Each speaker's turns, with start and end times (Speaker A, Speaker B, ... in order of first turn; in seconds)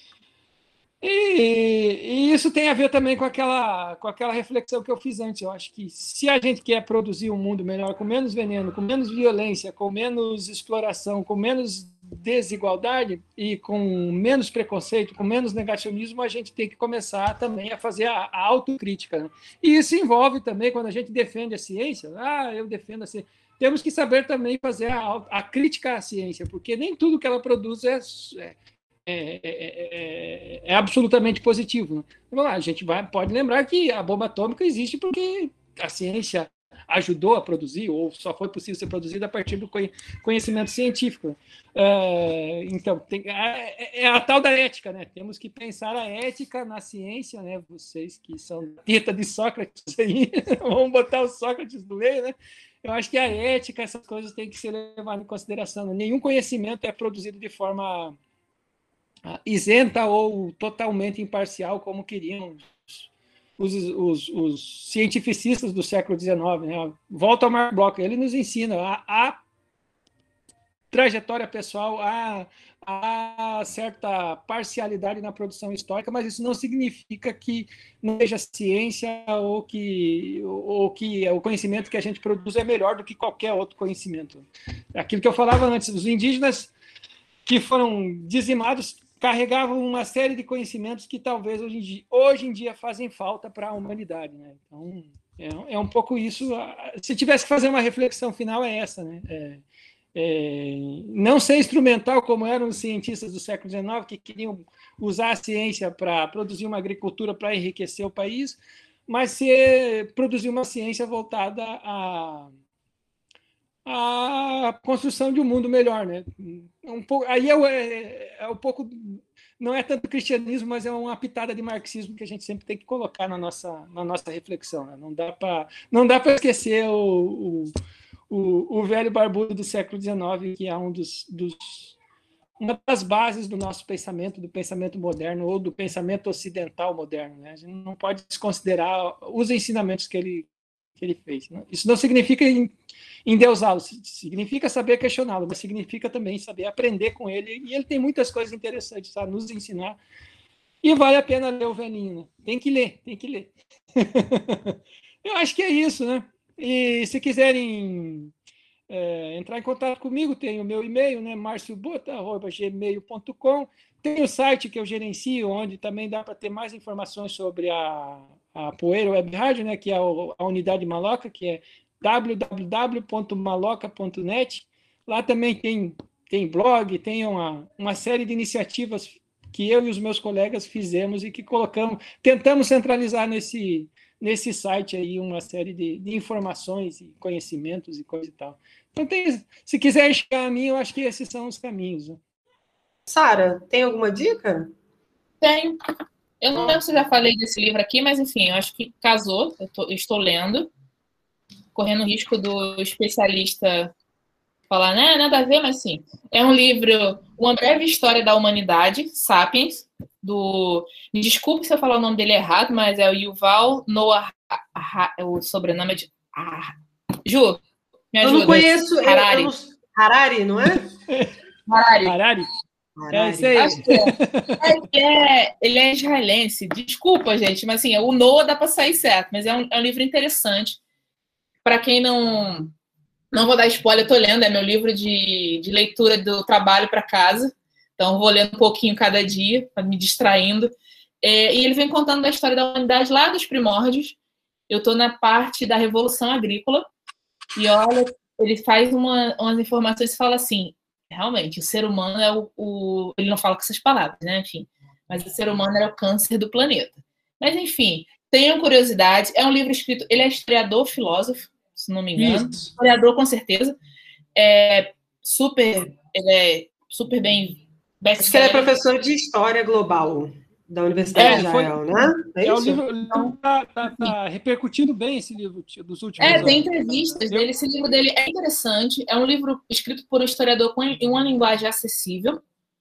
Speaker A: 1.0-28.5, 29.1-58.1, 59.2-69.4, 70.9-86.7, 87.5-99.6, 100.1-112.5, 113.8-127.7, 128.3-132.0, 132.6-140.5, 141.0-142.7, 143.2-150.0, 150.8-158.3, 158.9-192.2, 220.8-221.3, 222.0-222.5, 223.1-224.7, 262.2-262.7, 271.1-277.5
Speaker B: 193.1-194.7, 218.2-220.8, 223.0-223.8, 268.2-273.3
Speaker C: 195.4-195.8, 196.4-200.7, 201.7-203.9, 204.7-217.6, 218.1-219.5, 221.7-222.1, 223.5-230.8, 231.6-232.7, 233.3-244.2, 244.7-246.8, 247.6-263.7, 264.4-268.7, 271.1-271.4, 276.2-282.4